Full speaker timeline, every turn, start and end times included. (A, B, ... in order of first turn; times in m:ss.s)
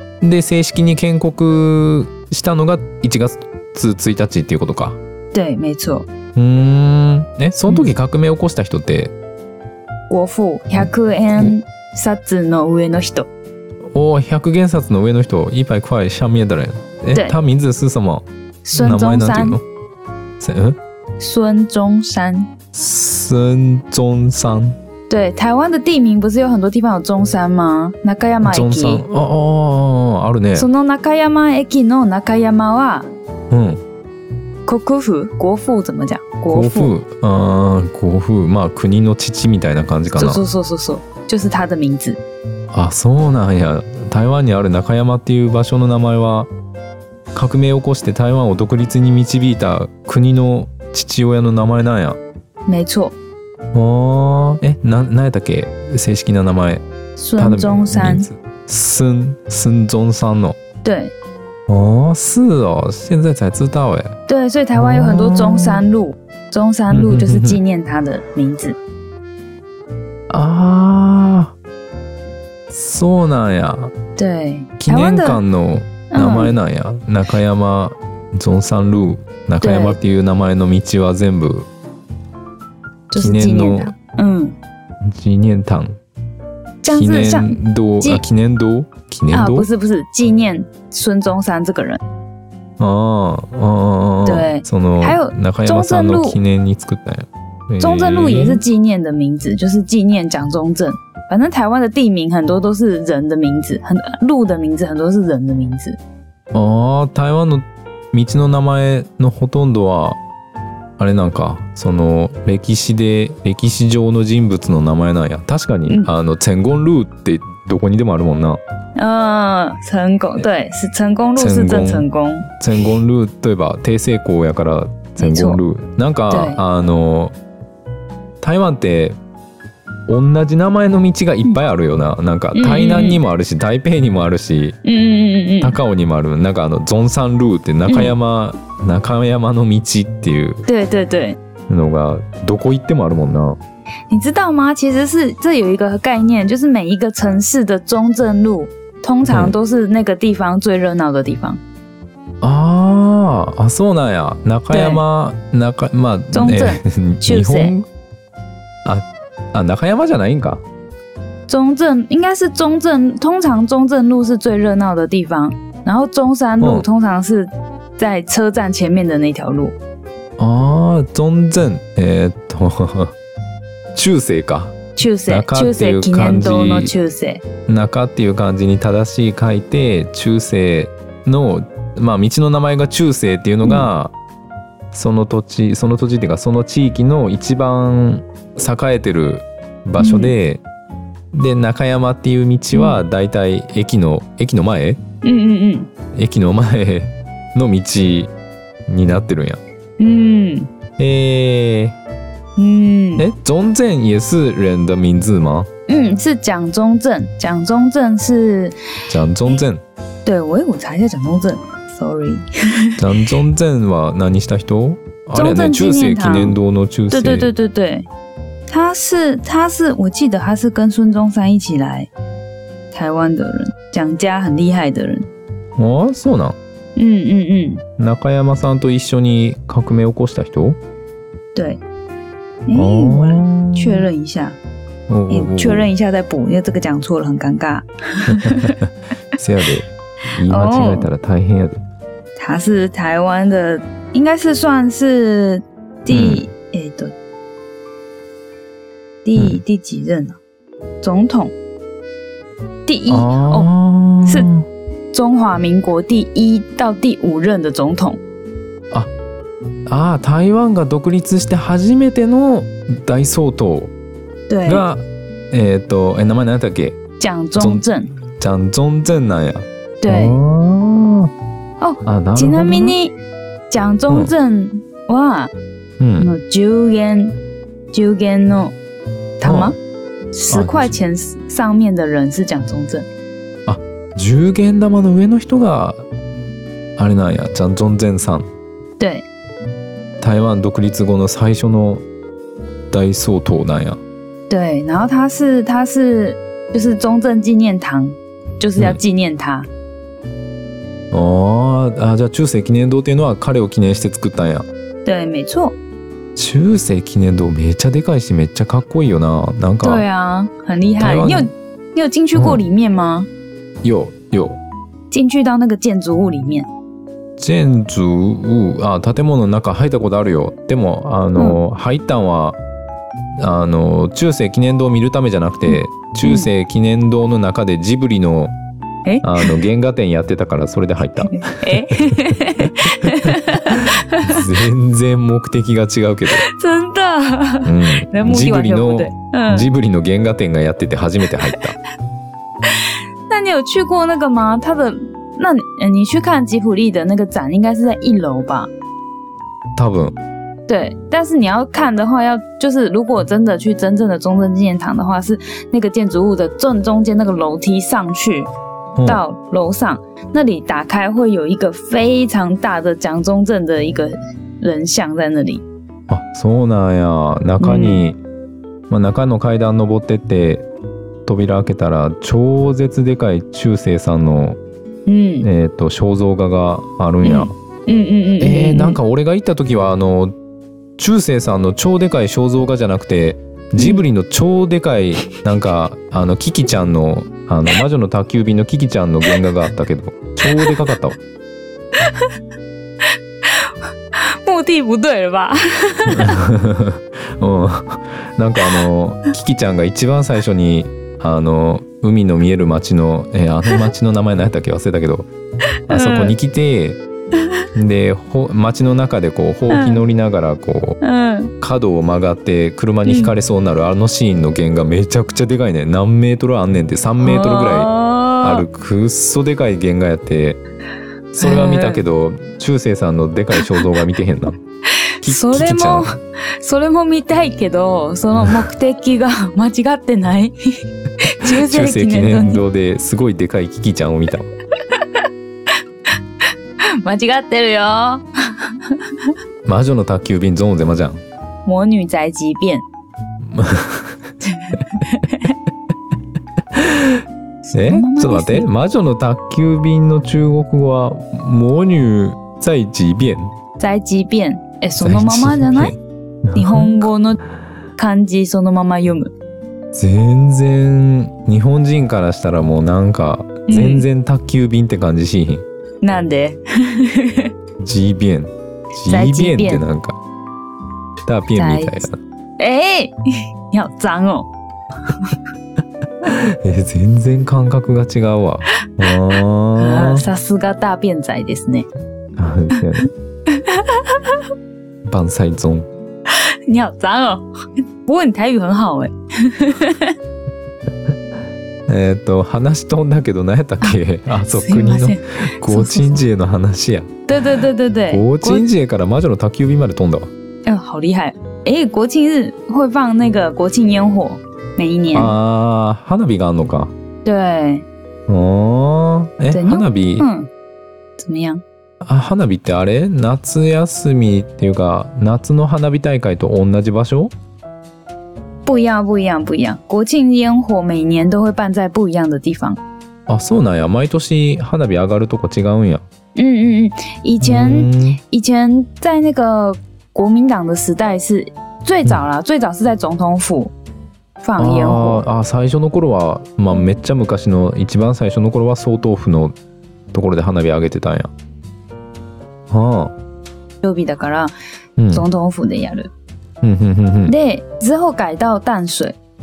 0:00.2-0:05.0 A
0:05.3-0:06.1 B
0:06.4-0:09.1 A
0:10.1-0:13.3 B
0:10.8-0:11.5 A
0:13.9-0:19.6 A
0:18.6-0:19.6 B
0:20.4-0:20.8 A
0:21.2-0:22.5 B
0:22.7-0:24.8 A
0:25.1-0:29.0 B
0:28.4-0:30.7 A
0:30.6-0:33.1 B
0:33.5-0:33.8 A
0:34.7-0:36.9 B
0:36.5-0:40.4 A
0:40.2-0:42.2 B
0:42.7-0:46.5 A
0:47.3-0:52.2 A
0:52.7-0:53.2 B
0:53.7-0:56.8 A
0:57.2-0:58.3 B
0:57.4-1:00.6 A
1:00.8-1:01.1 B
1:01.7-1:04.2 A
1:04.3-1:08.8 B
1:04.8-1:05.8 A
1:06.9-1:07.6 A
1:10.3-1:11.5 A
1:12.7-1:13.9 A
1:14.2-1:15.4 B
1:14.8-1:21.7 A
1:16.1-1:16.6 B
1:19.6-1:20.0 B
1:23.1-1:24.6 B
1:23.2-1:23.9 A
1:25.0-1:26.0 A
1:26.8-1:28.2 B
1:26.9-1:29.7 A
1:29.3-1:32.0 B
1:32.8-1:38.6 A
1:34.2-1:36.4 B
1:37.8-1:46.0 B
1:46.5-1:50.2 A
1:51.0-1:58.6 A
1:59.0-2:02.5 B
2:01.4-2:02.1 A
2:02.6-2:07.4 A
2:05.2-2:05.6 B
2:06.3-2:06.6 B
2:08.4-2:09.2 A
2:10.1-2:14.8 A
2:12.5-2:13.2 B
2:14.8-2:15.8 B
2:15.6-2:20.7 A
2:17.9-2:18.2 B
2:20.7-2:21.4 B
2:21.7-2:23.6 A
2:24.1-2:31.6 B
2:29.3-2:29.6 A
2:32.4-2:37.9 A
2:34.7-2:35.0 B
2:36.3-2:37.8 B
2:38.8-2:40.6 A
2:41.5-2:49.8 B
2:46.6-2:46.9 A
2:50.4-2:53.1 A
2:53.9-2:56.9 A
2:55.0-2:57.4 B
2:57.7-3:04.1 A
3:03.6-3:03.9 B
3:04.9-3:10.6 A
3:10.0-3:10.3 B
3:11.3-3:15.0 A
3:12.7-3:13.0 B
3:15.2-3:15.9 B
3:16.1-3:18.3 A
3:18.9-3:19.6 A
3:20.0-3:20.7 B
3:21.0-3:22.0 A
3:22.6-3:23.2 B
3:23.2-3:25.7 A
3:25.9-3:28.8 B
3:29.1-3:29.8 A
3:30.2-3:33.0 B
3:33.0-3:37.5 A
3:35.4-3:36.6 B
3:37.1-3:38.1 B
3:38.7-3:42.1 B
3:42.9-3:45.3 B
3:45.8-3:46.6 A
3:47.0-3:47.8 B
3:48.0-3:50.8 A
3:51.6-3:51.8 B
3:52.7-3:54.6 B
3:52.7-3:54.1 A
3:55.1-3:55.9 A
3:55.3-3:58.8 B
3:58.3-4:01.8 A
4:00.5-4:01.1 B
4:02.4-4:07.1 B
4:06.1-4:06.4 A
4:09.2-4:10.4 B
4:09.4-4:09.6 A
4:11.0-4:11.5 B
4:12.9-4:13.7 B
4:13.1-4:14.7 A
4:14.2-4:14.5 B
4:15.1-4:18.2 B
4:19.9-4:23.9 A
4:24.5-4:24.8 B
4:24.7-4:27.0 A
4:27.2-4:28.1 B
4:27.6-4:31.3 A
4:30.0-4:30.4 B
4:31.8-4:33.2 B
4:32.0-4:33.0 A
4:33.7-4:35.5 B
4:34.1-4:34.3 A
4:36.0-4:36.3 A
4:36.2-4:37.4 B
4:37.9-4:38.8 B
4:39.4-4:39.8 B
4:39.4-4:39.8 A
4:40.3-4:43.1 B
4:40.5-4:40.9 A
4:43.7-4:46.0 A
4:47.0-4:48.5 A
4:49.0-4:49.3 B
4:50.2-4:52.0 A
4:52.9-4:54.0 A
4:54.5-4:59.7 B
5:01.1-5:04.7 A
5:05.0-5:05.8 B
5:06.4-5:10.0 A
5:09.8-5:13.3 B
5:11.0-5:11.5 A
5:12.3-5:12.6 A
5:13.8-5:14.6 A
5:15.1-5:16.7 B
5:17.4-5:22.6 A
5:23.4-5:28.6 A
5:25.7-5:26.5 B
5:29.0-5:29.6 B
5:29.2-5:36.4 A
5:31.2-5:34.5 B
5:36.4-5:39.7 B
5:37.6-5:41.8 A
5:42.6-5:48.7 B
5:49.8-5:50.2 A
5:50.7-5:58.5 B
5:59.0-5:59.2 A
5:59.0-6:05.6 B
6:06.1-6:08.2 A
6:07.6-6:08.0 B
6:08.9-6:10.7 A
6:11.3-6:14.6 A
6:15.1-6:15.5 B
6:15.4-6:17.5 A
6:17.2-6:19.0 B
6:18.4-6:20.3 A
6:21.0-6:31.2 A
6:23.8-6:24.0 B
6:32.0-6:32.3 B
6:33.4-6:36.4 B
6:36.1-6:45.3 A
6:38.6-6:38.9 B
6:45.9-6:46.3 B
6:45.9-6:47.0 A
6:47.4-6:47.6 B
6:47.7-6:51.0 A
6:49.7-6:50.0 B
6:51.0-6:51.5 B
6:51.6-6:57.9 A
6:53.1-6:53.3 B
6:57.2-6:58.6 B
6:58.4-7:00.6 A
7:01.3-7:04.6 A
7:01.4-7:02.0 B
7:05.0-7:10.6 B
7:05.2-7:06.1 A
7:11.2-7:12.6 B
7:11.4-7:14.5 A
7:14.7-7:15.8 B
7:16.8-7:19.3 B
7:19.6-7:21.2 A
7:21.6-7:22.8 B
7:23.4-7:24.2 A
7:24.4-7:25.5 B
7:26.7-7:33.5 A
7:27.6-7:28.7 B
7:33.8-7:35.9 B
7:35.0-7:37.1 A
7:36.6-7:37.4 B
7:38.0-7:39.3 B
7:39.9-7:45.6 A
7:43.7-7:44.1 B
7:46.0-7:47.5 B
7:47.8-7:50.2 A
7:49.1-7:49.8 B
7:51.3-7:52.2 A
7:51.6-7:52.1 B
7:52.6-7:53.2 B
7:53.7-7:54.5 B
7:55.1-7:55.4 B
7:56.2-8:00.3 A
7:59.0-8:01.9 B
8:02.4-8:03.1 A
8:03.5-8:04.4 B
8:05.1-8:05.9 A
8:06.3-8:10.2 B
8:11.9-8:17.2 A
8:13.8-8:16.2 B
8:17.3-8:18.7 B
8:18.1-8:20.3 A
8:20.6-8:25.3 B
8:25.1-8:26.9 A
8:27.2-8:27.9 B
8:28.3-8:30.3 A
8:29.5-8:30.5 B
8:31.2-8:31.6 B
8:32.0-8:37.3 A
8:38.6-8:42.8 B
8:43.3-8:46.0 A
8:46.4-8:53.7 B
8:47.4-8:48.2 A
8:54.4-8:55.2 B
8:54.6-8:59.6 A
9:00.1-9:01.3 A
9:02.7-9:03.1 A
9:03.8-9:04.5 B
9:05.0-9:05.3 A
9:05.1-9:06.1 B
9:06.6-9:07.4 A
9:07.3-9:09.2 B